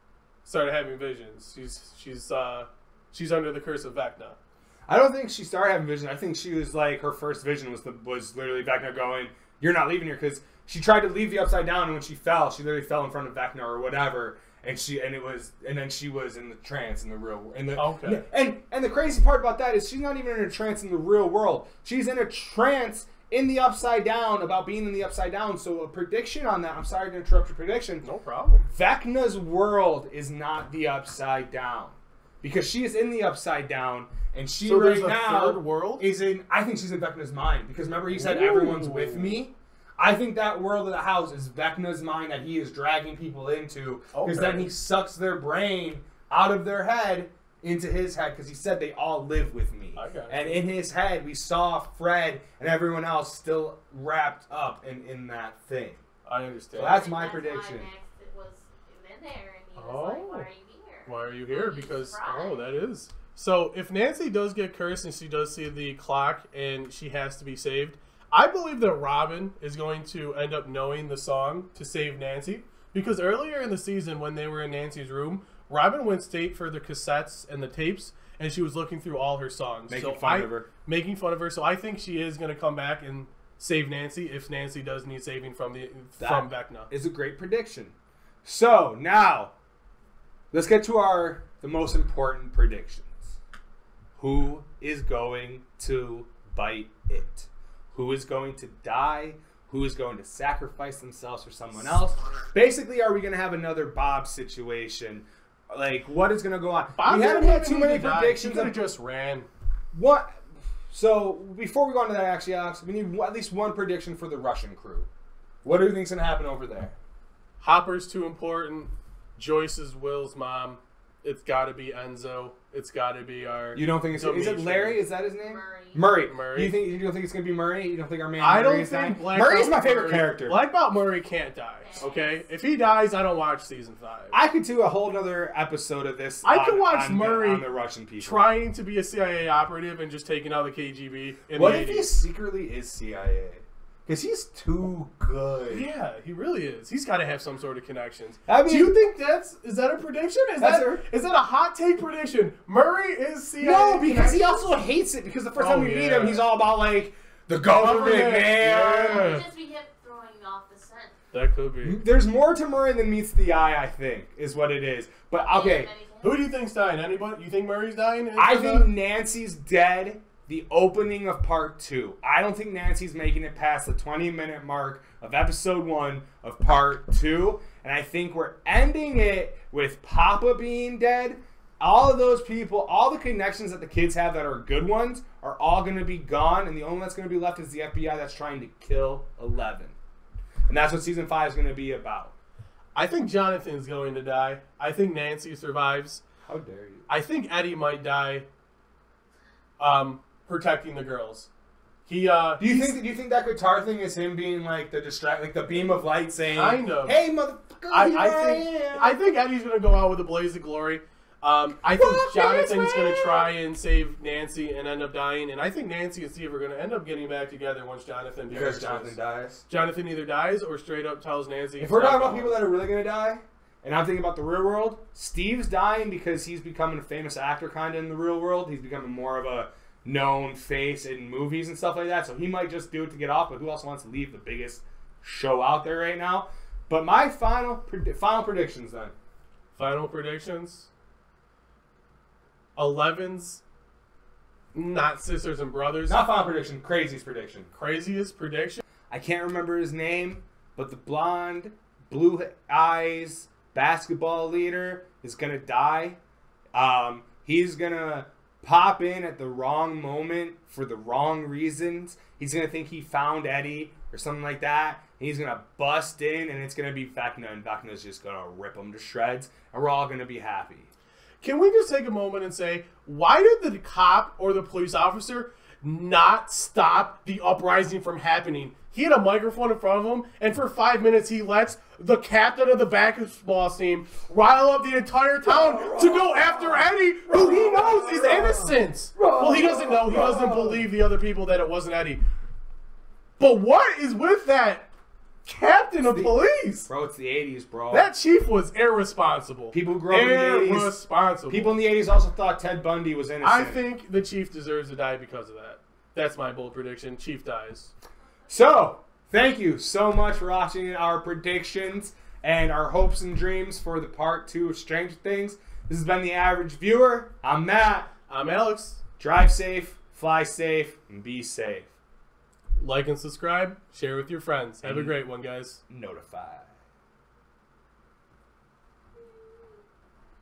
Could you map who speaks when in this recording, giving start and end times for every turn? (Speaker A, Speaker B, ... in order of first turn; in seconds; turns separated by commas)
Speaker A: 0.4-4.4, Speaker B: 4.9-28.1, Speaker A: 17.7-18.2, Speaker A: 28.0-28.7, Speaker B: 28.7-56.0, Speaker A: 34.6-36.0, Speaker A: 38.1-39.4, Speaker A: 44.1-44.7, Speaker A: 49.9-50.6, Speaker A: 56.2-56.9, Speaker B: 56.7-57.9, Speaker C: 56.8-62.7, Speaker A: 59.8-60.5, Speaker A: 61.0-86.9, Speaker B: 79.9-80.7, Speaker B: 86.2-87.9, Speaker B: 88.4-89.5, Speaker B: 90.5-93.4, Speaker B: 94.2-108.8, Speaker A: 106.9-109.5, Speaker B: 109.9-115.1, Speaker B: 115.6-117.0, Speaker A: 117.6-125.0, Speaker B: 123.7-130.6, Speaker C: 125.4-126.2, Speaker A: 126.2-126.8, Speaker A: 128.4-134.3, Speaker C: 131.8-132.4, Speaker B: 134.3-138.4, Speaker A: 136.4-137.6, Speaker A: 138.2-142.1, Speaker B: 141.5-145.9, Speaker A: 145.7-154.7, Speaker B: 148.4-148.9, Speaker B: 150.6-151.0, Speaker B: 153.6-159.3, Speaker A: 155.5-156.5, Speaker A: 157.8-159.4, Speaker C: 158.9-161.1, Speaker A: 161.3-162.0, Speaker B: 161.8-165.9, Speaker C: 165.3-166.5, Speaker A: 166.2-168.9, Speaker B: 168.3-189.9, Speaker B: 190.7-192.3, Speaker A: 192.9-196.2, Speaker B: 196.4-197.1, Speaker A: 197.1-198.4, Speaker A: 199.8-201.5, Speaker A: 202.1-202.9, Speaker B: 202.6-209.2, Speaker A: 206.5-207.2, Speaker A: 207.9-219.2, Speaker B: 211.9-213.4, Speaker B: 218.5-219.6, Speaker A: 219.7-222.6, Speaker B: 221.8-239.1, Speaker A: 239.7-240.9, Speaker A: 242.8-243.6, Speaker A: 244.7-246.2, Speaker B: 246.1-247.7, Speaker A: 247.7-248.8, Speaker B: 249.1-256.2, Speaker B: 256.7-270.9, Speaker A: 271.4-292.2, Speaker B: 287.6-290.8, Speaker A: 293.4-294.9, Speaker A: 295.4-296.9, Speaker B: 296.0-298.1, Speaker A: 297.9-301.8, Speaker B: 299.7-301.0, Speaker B: 301.5-303.8, Speaker A: 303.4-307.9, Speaker B: 308.5-318.1, Speaker A: 318.3-319.0, Speaker B: 319.2-321.9, Speaker A: 322.8-325.8, Speaker B: 324.8-325.1, Speaker B: 325.9-326.7, Speaker C: 329.2-329.8